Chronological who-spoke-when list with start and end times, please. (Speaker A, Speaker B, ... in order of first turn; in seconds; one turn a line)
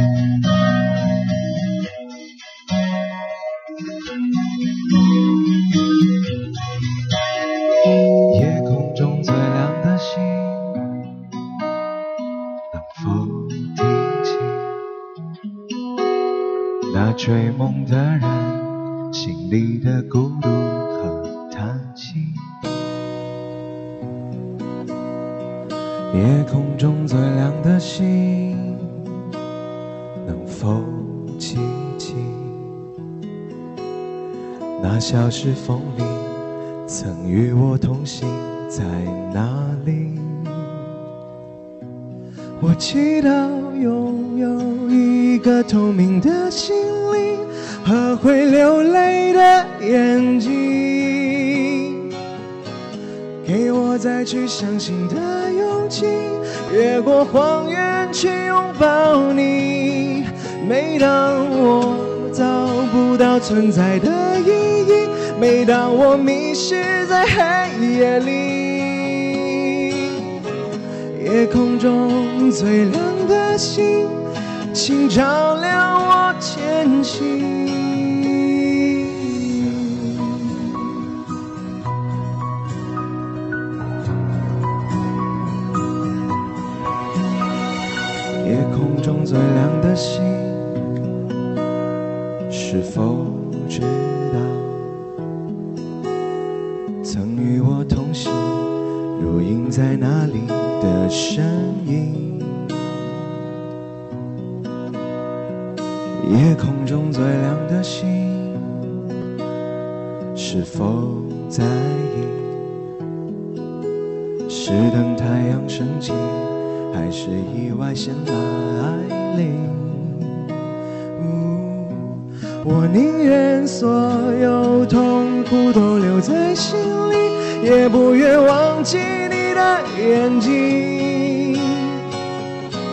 Speaker A: 8.3-10.8
Speaker A: 12.7-14.7
Speaker A: 16.9-22.4
Speaker A: 26.1-28.9
Speaker A: 30.2-32.7
Speaker A: 34.8-40.8
Speaker A: 42.6-52.1
Speaker A: 53.4-70.3
Speaker A: 71.1-80.7
Speaker A: 88.4-90.8
Speaker A: 92.5-94.9
Speaker A: 97.0-102.8
Speaker A: 106.2-108.8
Speaker A: 110.3-112.7
Speaker A: 114.5-120.5
Speaker A: 121.2-132.0